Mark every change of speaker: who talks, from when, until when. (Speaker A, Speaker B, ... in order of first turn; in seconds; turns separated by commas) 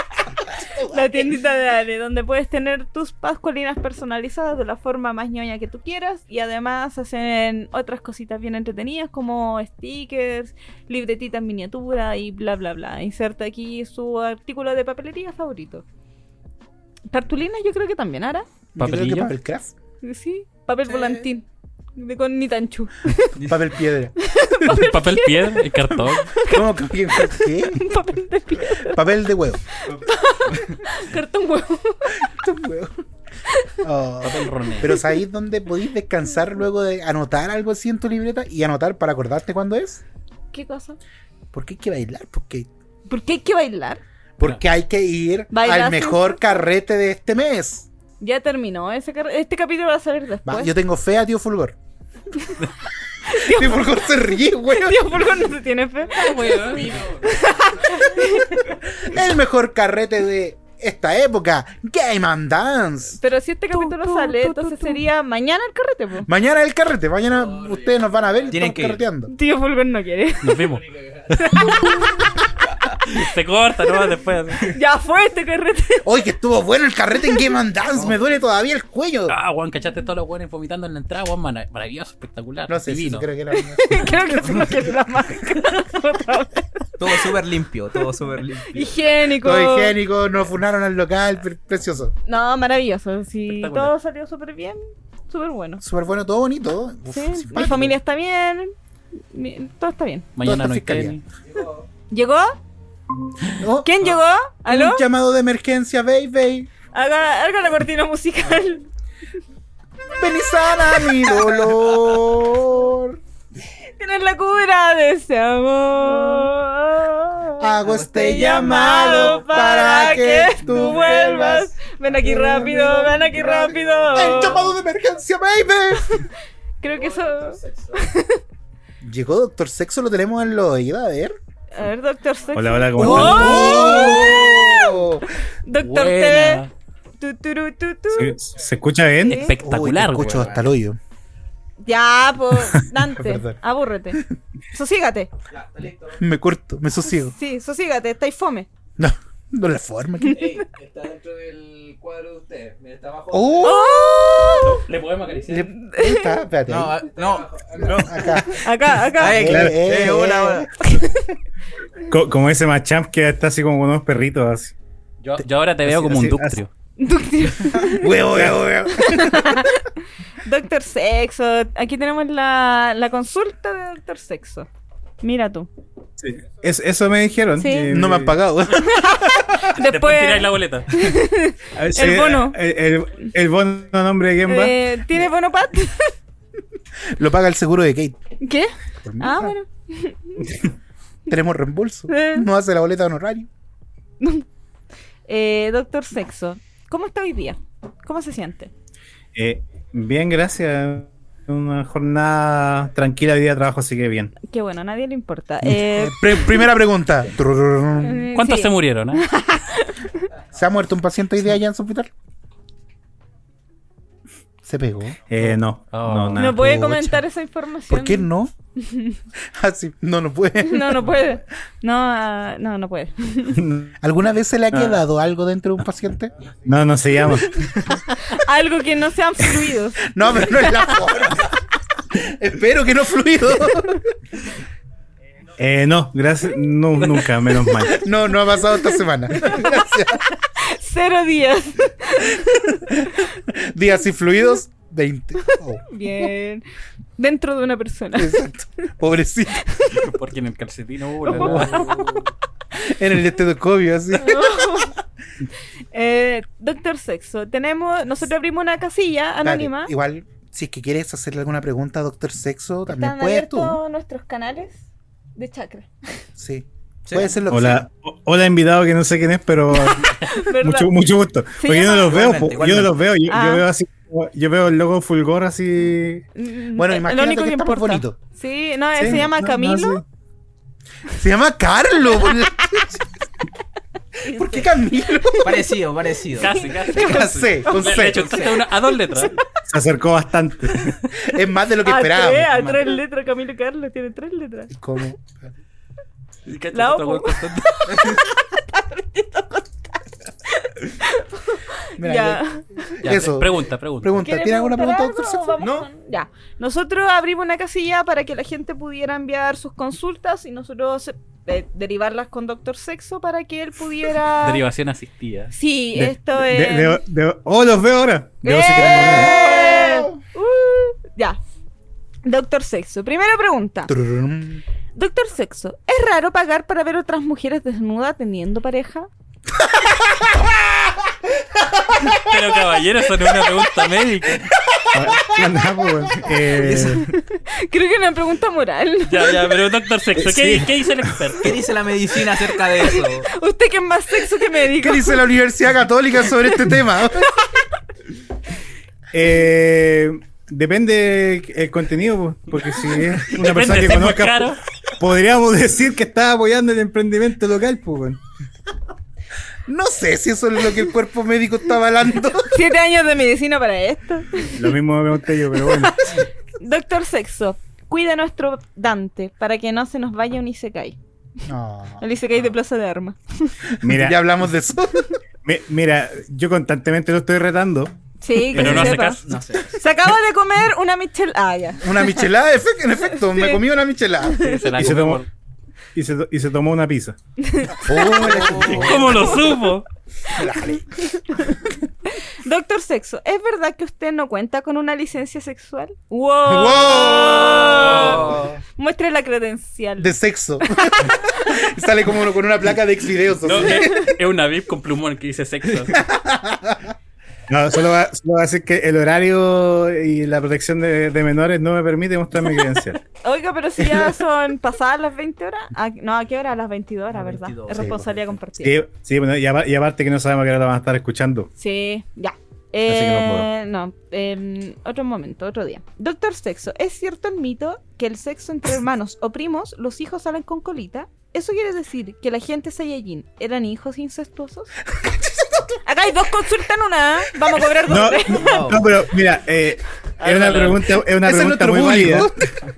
Speaker A: 0.5-1.3, Speaker B: 0.9-15.8, Speaker B: 17.1-18.5, Speaker A: 18.8-19.8, Speaker C: 18.8-19.3, Speaker B: 20.0-21.4, Speaker D: 20.9-21.3, Speaker B: 22.0-23.4, Speaker D: 23.4-23.7, Speaker A: 23.4-24.7, Speaker B: 24.2-25.6, Speaker C: 24.7-26.4, Speaker B: 26.3-29.0, Speaker A: 26.4-27.9, Speaker A: 28.7-29.6, Speaker B: 29.8-32.3, Speaker D: 29.9-30.8, Speaker A: 32.2-33.0, Speaker B: 33.5-33.8, Speaker A: 33.8-40.0, Speaker C: 34.2-35.0, Speaker B: 40.5-41.0, Speaker A: 41.5-42.7, Speaker B: 43.1-44.0, Speaker A: 44.4-47.9, Speaker B: 45.5-46.6, Speaker B: 48.2-50.8, Speaker A: 50.5-51.8, Speaker B: 53.2-58.7, Speaker A: 53.3-55.3, Speaker C: 56.1-57.2, Speaker E: 56.1-58.1, Speaker A: 58.8-63.2, Speaker B: 63.2-66.3, Speaker C: 63.7-65.0, Speaker A: 66.3-69.3, Speaker E: 67.3-68.6, Speaker D: 68.5-69.0, Speaker B: 69.3-70.7, Speaker C: 70.4-72.0, Speaker E: 70.7-71.8, Speaker B: 71.4-72.3, Speaker C: 73.0-74.8, Speaker B: 74.7-76.0, Speaker A: 76.0-79.3, Speaker C: 79.3-83.3, Speaker A: 82.7-84.6, Speaker B: 83.5-87.4, Speaker D: 84.4-84.7, Speaker D: 87.0-89.0, Speaker B: 88.7-90.0, Speaker A: 89.4-92.1, Speaker B: 92.3-95.8, Speaker C: 93.5-93.9, Speaker A: 95.8-98.0, Speaker B: 97.1-98.7, Speaker B: 99.3-100.3, Speaker C: 100.4-101.2, Speaker A: 100.4-101.2, Speaker E: 101.5-101.9, Speaker B: 102.1-102.6, Speaker A: 103.6-104.0, Speaker B: 103.8-105.1, Speaker A: 104.7-106.7, Speaker B: 106.9-108.9, Speaker A: 110.2-113.2, Speaker B: 110.9-111.4, Speaker B: 114.0-124.7, Speaker A: 117.6-126.2, Speaker D: 117.8-120.1, Speaker D: 120.7-121.2, Speaker E: 122.8-124.7, Speaker B: 126.8-128.4, Speaker E: 126.8-128.2, Speaker A: 129.0-131.4, Speaker B: 131.7-134.6, Speaker F: 132.6-133.7, Speaker A: 133.0-135.3, Speaker C: 133.2-134.0, Speaker D: 133.2-134.9, Speaker B: 135.6-136.7, Speaker C: 135.8-136.7, Speaker B: 137.2-138.4, Speaker F: 138.1-139.4, Speaker B: 139.2-139.6, Speaker C: 139.3-140.5, Speaker A: 139.6-141.0, Speaker D: 140.2-140.7, Speaker B: 141.8-145.3, Speaker A: 143.0-143.6, Speaker E: 145.5-146.2, Speaker A: 146.2-147.3, Speaker B: 147.1-148.7, Speaker A: 149.0-150.5, Speaker B: 150.2-150.6, Speaker E: 150.3-153.8, Speaker A: 153.3-154.8, Speaker B: 153.6-154.8, Speaker C: 154.6-155.7, Speaker A: 155.5-157.0, Speaker B: 155.7-156.4, Speaker D: 156.7-157.5, Speaker E: 156.9-158.5, Speaker A: 157.8-160.7, Speaker B: 158.5-159.4, Speaker D: 159.2-160.7, Speaker F: 159.4-159.8, Speaker B: 160.8-161.3, Speaker F: 162.1-164.7, Speaker C: 165.2-166.7, Speaker A: 165.9-166.5, Speaker F: 166.1-166.5, Speaker B: 167.0-168.2, Speaker A: 167.7-169.6, Speaker F: 168.3-168.7, Speaker B: 168.9-174.7, Speaker B: 175.2-175.7, Speaker F: 176.2-178.4, Speaker B: 177.6-177.9, Speaker A: 177.9-179.5, Speaker B: 178.7-182.6, Speaker C: 179.7-181.0, Speaker F: 181.8-184.8, Speaker B: 184.4-186.1, Speaker A: 187.1-188.2, Speaker B: 188.4-190.6, Speaker A: 189.1-189.6, Speaker A: 191.3-193.5, Speaker B: 192.1-192.5, Speaker B: 194.2-194.5, Speaker B: 195.3-198.7, Speaker F: 199.3-204.3, Speaker B: 204.4-206.7, Speaker A: 205.8-208.3, Speaker B: 208.0-210.3, Speaker C: 208.3-209.2, Speaker A: 210.5-212.1, Speaker A: 214.6-215.2, Speaker F: 215.3-217.0, Speaker C: 215.4-216.5, Speaker B: 216.4-219.2, Speaker A: 216.6-217.2, Speaker A: 217.9-218.5, Speaker A: 219.5-221.1, Speaker B: 220.6-223.6, Speaker F: 223.5-224.0, Speaker A: 224.0-226.3, Speaker F: 224.7-225.0, Speaker F: 226.7-227.7, Speaker B: 227.3-230.0, Speaker A: 230.1-234.1, Speaker F: 235.6-238.0, Speaker A: 237.9-240.2, Speaker B: 239.3-239.9, Speaker B: 240.6-243.3, Speaker A: 242.8-246.3, Speaker B: 245.5-246.6, Speaker B: 247.2-248.4, Speaker A: 248.2-249.8, Speaker B: 249.7-250.0, Speaker C: 250.0-252.1, Speaker A: 251.3-252.2, Speaker B: 251.3-252.0, Speaker A: 252.7-254.8, Speaker B: 254.2-255.0, Speaker B: 255.9-259.9, Speaker A: 259.4-263.8, Speaker B: 262.9-264.9, Speaker B: 265.4-266.2, Speaker A: 266.4-267.8, Speaker D: 267.1-267.4, Speaker F: 267.5-276.2, Speaker B: 269.9-270.9, Speaker B: 271.6-272.3, Speaker D: 272.1-273.0, Speaker B: 273.3-273.7, Speaker B: 276.4-280.0, Speaker A: 276.8-278.2, Speaker F: 279.0-280.0, Speaker A: 281.1-283.1, Speaker B: 284.2-285.5, Speaker A: 284.3-285.7, Speaker D: 285.4-286.6, Speaker C: 286.4-289.4, Speaker B: 286.5-287.8, Speaker A: 286.9-288.5, Speaker D: 288.0-288.6, Speaker B: 288.9-289.4, Speaker F: 289.7-291.2, Speaker A: 291.2-292.8, Speaker B: 291.8-294.7, Speaker D: 292.5-292.8, Speaker A: 294.7-295.5, Speaker C: 296.5-298.2, Speaker B: 296.7-303.0, Speaker A: 302.0-305.7, Speaker C: 303.0-304.2, Speaker B: 304.1-314.6, Speaker D: 305.6-305.9, Speaker C: 314.4-315.6, Speaker B: 315.5-317.0, Speaker F: 315.9-319.4, Speaker B: 318.4-321.4, Speaker A: 318.8-320.2, Speaker B: 322.2-323.9, Speaker A: 323.9-324.6, Speaker B: 324.9-329.1, Speaker A: 329.7-330.7, Speaker C: 332.1-334.5, Speaker F: 334.9-337.1, Speaker D: 336.6-337.0, Speaker B: 336.9-339.4, Speaker C: 339.1-341.7, Speaker F: 340.2-341.4, Speaker D: 341.4-343.3, Speaker B: 342.8-345.2, Speaker A: 344.6-347.4, Speaker F: 349.1-358.2, Speaker C: 352.9-354.6, Speaker A: 359.7-362.6, Speaker B: 362.5-364.7, Speaker F: 364.6-366.1, Speaker B: 365.6-371.0, Speaker A: 371.5-372.0, Speaker B: 372.0-373.6, Speaker A: 373.8-375.2, Speaker F: 373.8-374.2, Speaker F: 375.4-377.9, Speaker B: 378.2-382.2, Speaker C: 378.5-379.4, Speaker D: 378.6-379.8, Speaker A: 381.8-384.9, Speaker B: 383.3-383.6, Speaker B: 384.3-384.7, Speaker C: 384.4-385.3, Speaker F: 384.8-385.2, Speaker F: 385.9-387.2, Speaker B: 387.4-389.4, Speaker A: 387.8-389.5, Speaker D: 388.1-389.2, Speaker C: 388.6-389.9, Speaker B: 390.3-401.7, Speaker A: 390.3-390.9, Speaker A: 396.5-398.6, Speaker A: 400.0-404.1, Speaker C: 403.4-406.1, Speaker A: 406.0-406.9, Speaker F: 407.5-413.0, Speaker B: 413.2-418.8, Speaker D: 417.1-418.1, Speaker A: 417.7-418.1, Speaker F: 418.6-421.5, Speaker B: 421.6-434.7, Speaker F: 422.9-423.5, Speaker A: 434.9-435.8, Speaker B: 435.9-438.8, Speaker F: 437.8-442.3, Speaker D: 438.2-438.9, Speaker C: 440.2-440.8, Speaker D: 440.3-440.8, Speaker A: 441.1-442.5